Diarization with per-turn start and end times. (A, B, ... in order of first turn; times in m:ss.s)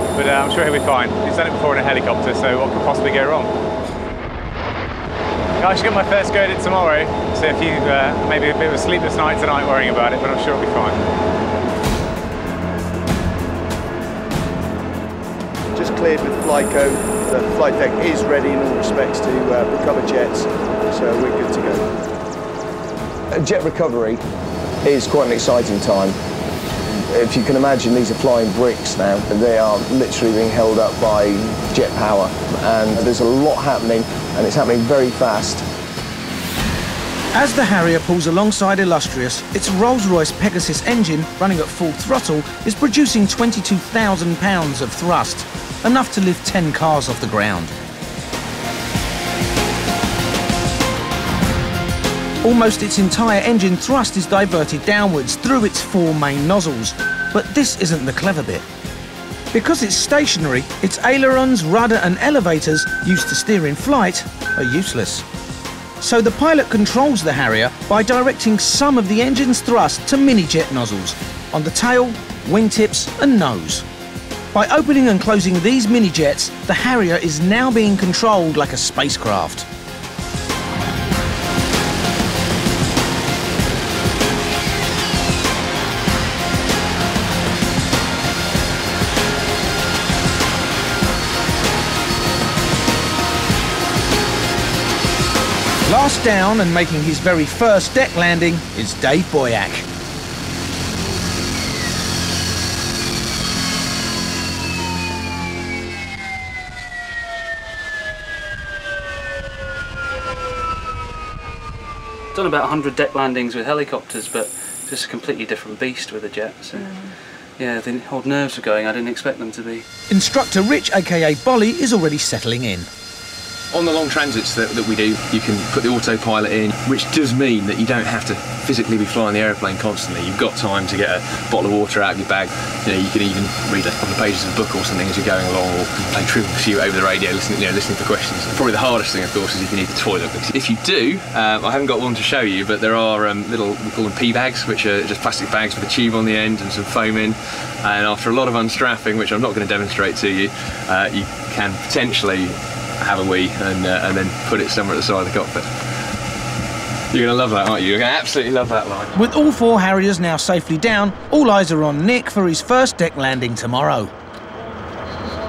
0:00.1-0:03.5 A
0:05.6-0:11.0 A
0:15.7-0:21.8 B
0:23.4-0:24.2 C
0:24.8-0:26.2 C
0:27.0-0:35.6 C
0:37.3-0:47.7 D
0:52.4-0:58.6 D
0:59.5-1:05.2 D
1:06.0-1:13.8 D
1:14.5-1:19.6 D
1:35.8-1:39.8 D
1:52.3-1:59.8 E
2:00.1-2:02.9 D
2:03.7-2:35.8 F
2:37.1-2:39.2 F
2:39.1-2:44.1 D